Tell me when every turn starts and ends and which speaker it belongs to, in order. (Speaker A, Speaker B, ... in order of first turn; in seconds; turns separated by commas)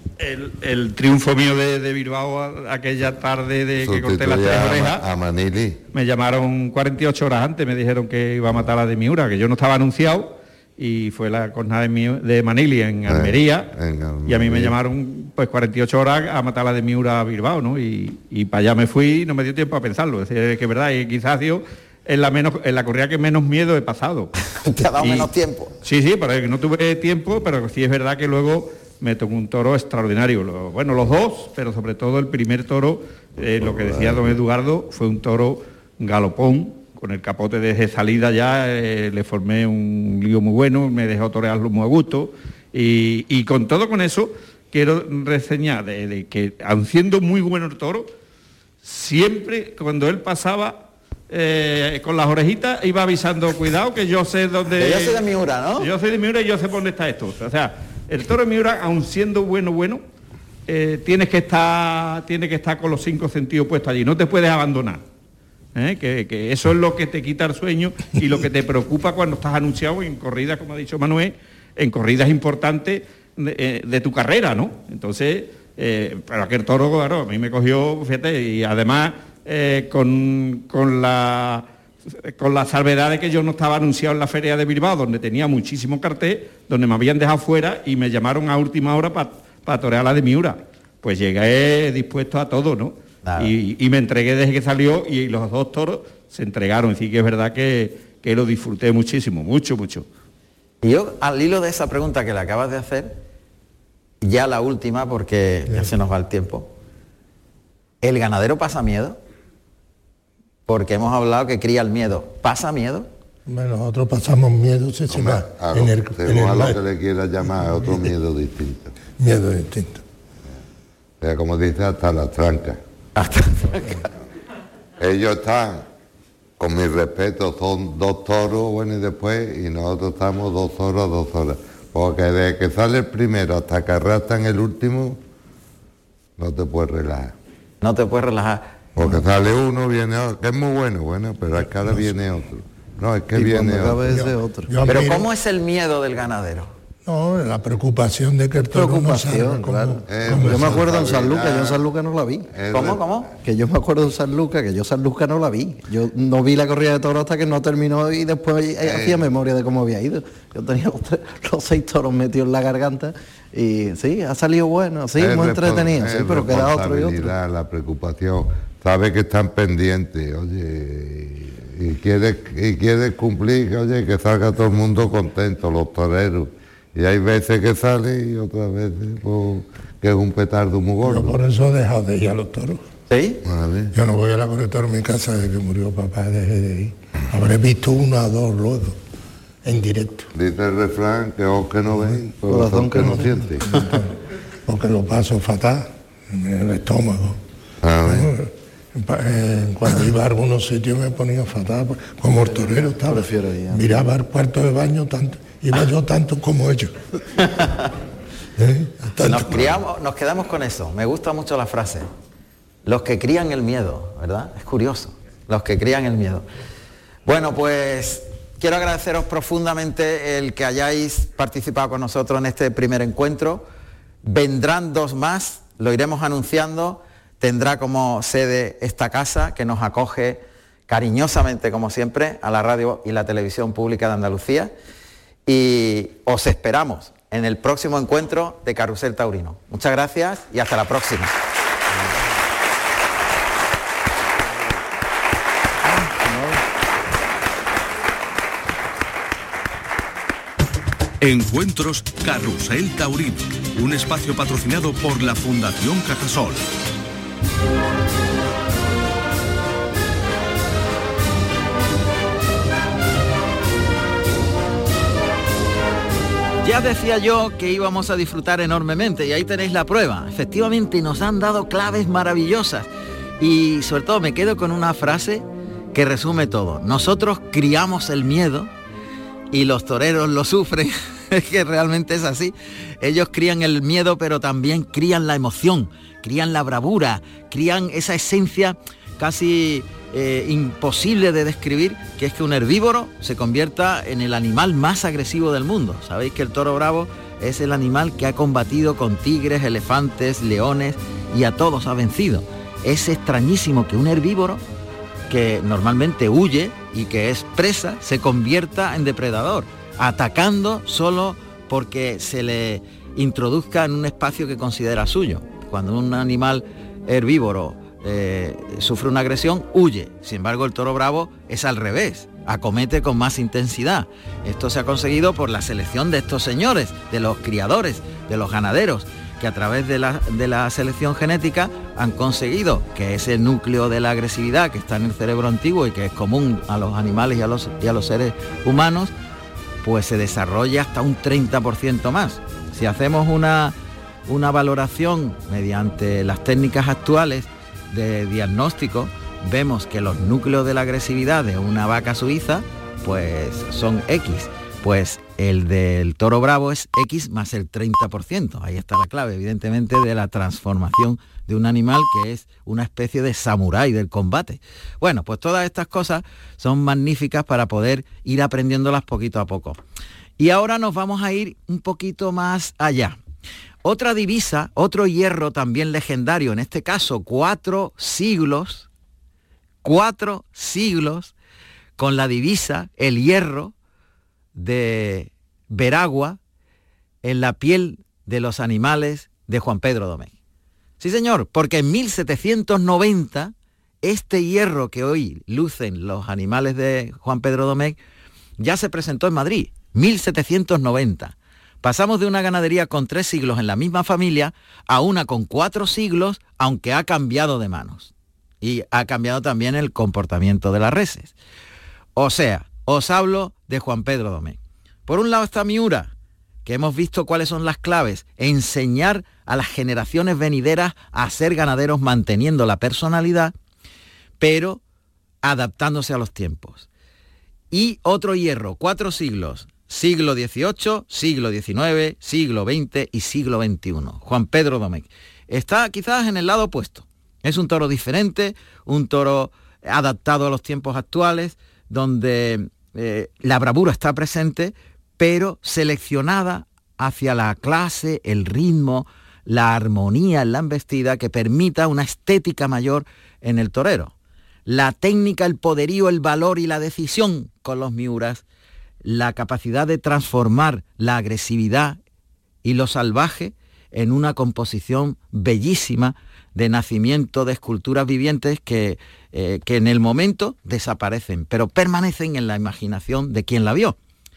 Speaker A: 0.2-5.0, Speaker B: 3.8-5.8, Speaker A: 5.9-13.7, Speaker B: 13.1-14.8, Speaker A: 14.3-24.3, Speaker C: 24.6-25.7, Speaker A: 25.0-48.1, Speaker A: 48.8-55.2, Speaker C: 54.8-55.9, Speaker A: 55.8-60.0, Speaker A: 60.7-65.0, Speaker A: 65.8-100.1, Speaker C: 93.2-93.5, Speaker C: 100.8-103.2, Speaker C: 104.2-106.7, Speaker C: 108.0-109.2, Speaker C: 110.7-113.1, Speaker D: 113.5-116.8, Speaker B: 115.1-119.0, Speaker D: 119.2-120.0, Speaker B: 121.2-122.8, Speaker C: 123.2-124.1, Speaker B: 125.0-125.9, Speaker B: 126.6-135.2, Speaker B: 136.4-137.3, Speaker C: 137.8-138.7, Speaker B: 139.0-144.2, Speaker E: 143.3-144.9, Speaker D: 144.1-145.3, Speaker C: 144.9-146.7, Speaker D: 147.1-150.8, Speaker E: 148.7-152.5, Speaker B: 150.1-151.8, Speaker B: 152.5-153.3, Speaker C: 152.7-153.3, Speaker E: 153.4-167.3, Speaker B: 158.8-159.2, Speaker B: 165.2-181.4, Speaker D: 181.1-182.9, Speaker C: 183.1-183.4, Speaker B: 183.4-184.0, Speaker D: 183.9-189.0, Speaker D: 189.6-190.3, Speaker B: 190.3-193.7, Speaker E: 192.4-193.9, Speaker D: 193.0-194.1, Speaker D: 194.7-197.4, Speaker B: 197.8-198.3, Speaker D: 198.1-207.0, Speaker E: 202.4-204.0, Speaker C: 207.4-207.9, Speaker D: 208.6-209.8, Speaker C: 209.2-212.1, Speaker C: 212.8-216.5, Speaker C: 217.2-223.7, Speaker C: 224.2-234.7, Speaker C: 235.5-241.4, Speaker F: 251.2-256.7, Speaker C: 266.6-272.9, Speaker C: 273.4-278.7, Speaker C: 279.5-304.6, Speaker C: 305.3-339.1, Speaker C: 339.8-343.8, Speaker C: 344.3-369.8, Speaker C: 370.4-373.2, Speaker C: 373.8-378.9, Speaker C: 379.8-381.3, Speaker C: 382.0-383.7, Speaker C: 384.6-386.4, Speaker C: 387.2-390.3, Speaker C: 391.0-398.0, Speaker C: 398.6-411.4, Speaker C: 412.2-416.1, Speaker C: 416.6-423.5, Speaker C: 424.4-424.8, Speaker C: 425.4-426.9, Speaker C: 427.7-454.1, Speaker C: 454.7-458.4, Speaker C: 459.0-462.0, Speaker C: 462.6-474.0